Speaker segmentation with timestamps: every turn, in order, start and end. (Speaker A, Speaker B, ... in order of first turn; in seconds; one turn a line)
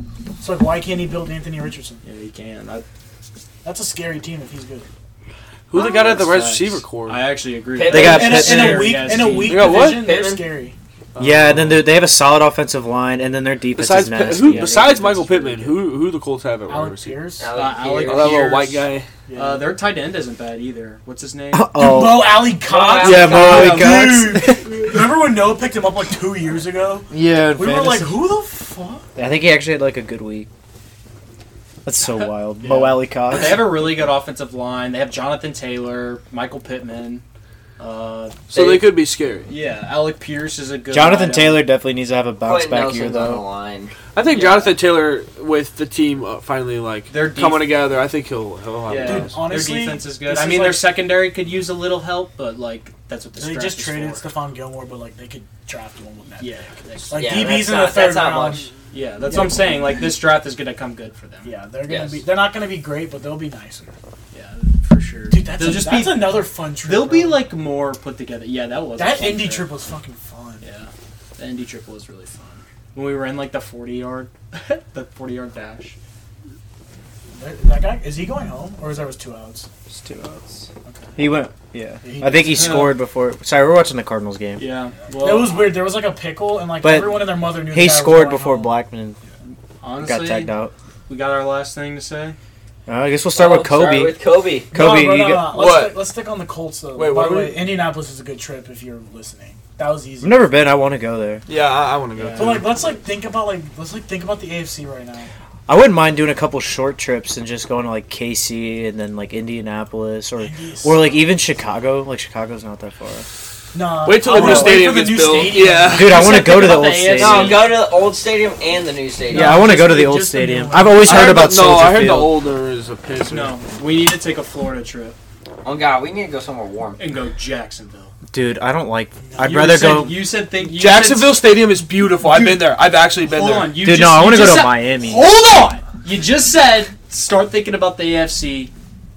Speaker A: 0.4-2.0
Speaker B: 2.0-2.8
Speaker A: 3.6-4.9
Speaker C: 5.7-7.3
Speaker B: 5.7-9.8
Speaker D: 7.7-8.4
Speaker E: 7.8-9.0
Speaker A: 7.9-10.7
Speaker C: 9.4-10.0
Speaker D: 9.7-10.4
Speaker E: 11.2-15.2
Speaker B: 11.2-11.6
Speaker C: 13.7-17.3
Speaker D: 14.6-14.8
Speaker A: 16.7-17.5
Speaker D: 17.4-18.6
Speaker B: 17.5-21.7
Speaker C: 18.1-19.1
Speaker A: 19.3-19.7
Speaker E: 21.5-22.5
Speaker A: 21.8-29.1
Speaker D: 22.6-23.6
Speaker E: 23.0-24.9
Speaker C: 23.1-23.9
Speaker E: 27.1-28.2
Speaker E: 29.1-30.5
Speaker E: 31.8-33.8
Speaker B: 32.6-37.2
Speaker B: 37.8-38.9
Speaker C: 38.5-39.5
Speaker B: 39.5-41.7
Speaker E: 40.9-43.4
Speaker D: 42.4-43.9
Speaker C: 44.1-49.4
Speaker B: 44.2-44.8
Speaker B: 47.1-47.8
Speaker B: 48.9-54.2
Speaker A: 49.0-50.9
Speaker A: 53.4-58.7
Speaker B: 56.4-57.5
Speaker D: 57.2-58.7
Speaker B: 58.9-61.5
Speaker A: 59.2-60.0
Speaker A: 61.4-64.0
Speaker D: 61.9-62.2
Speaker B: 64.3-69.7
Speaker A: 65.3-67.5
Speaker A: 69.0-70.7
Speaker B: 70.6-75.9
Speaker A: 77.3-79.7
Speaker E: 79.9-84.7
Speaker A: 80.8-81.2
Speaker A: 82.0-82.9
Speaker B: 82.5-82.9
Speaker B: 84.6-85.7
Speaker A: 85.2-88.8
Speaker E: 86.8-89.2
Speaker B: 89.8-90.5
Speaker E: 90.0-90.7
Speaker B: 91.1-92.3
Speaker E: 92.9-94.2
Speaker D: 93.3-94.7
Speaker E: 94.7-95.6
Speaker A: 94.7-100.5
Speaker C: 95.5-96.0
Speaker C: 97.0-97.7
Speaker E: 100.2-101.4
Speaker C: 101.5-102.7
Speaker B: 102.1-102.7
Speaker A: 102.3-105.3
Speaker E: 105.7-113.3
Speaker A: 110.4-111.2
Speaker A: 113.7-116.1
Speaker C: 114.0-116.3
Speaker B: 114.3-114.9
Speaker E: 115.9-117.6
Speaker B: 116.0-117.8
Speaker D: 117.1-119.6
Speaker A: 119.3-121.3
Speaker E: 119.3-122.3
Speaker C: 121.0-123.5
Speaker B: 123.2-125.2
Speaker D: 125.6-127.0
Speaker B: 127.0-128.1
Speaker E: 128.3-130.2
Speaker A: 129.2-129.7
Speaker B: 129.4-131.4
Speaker C: 130.6-133.7
Speaker B: 132.2-132.7
Speaker B: 133.3-138.7
Speaker E: 133.8-135.3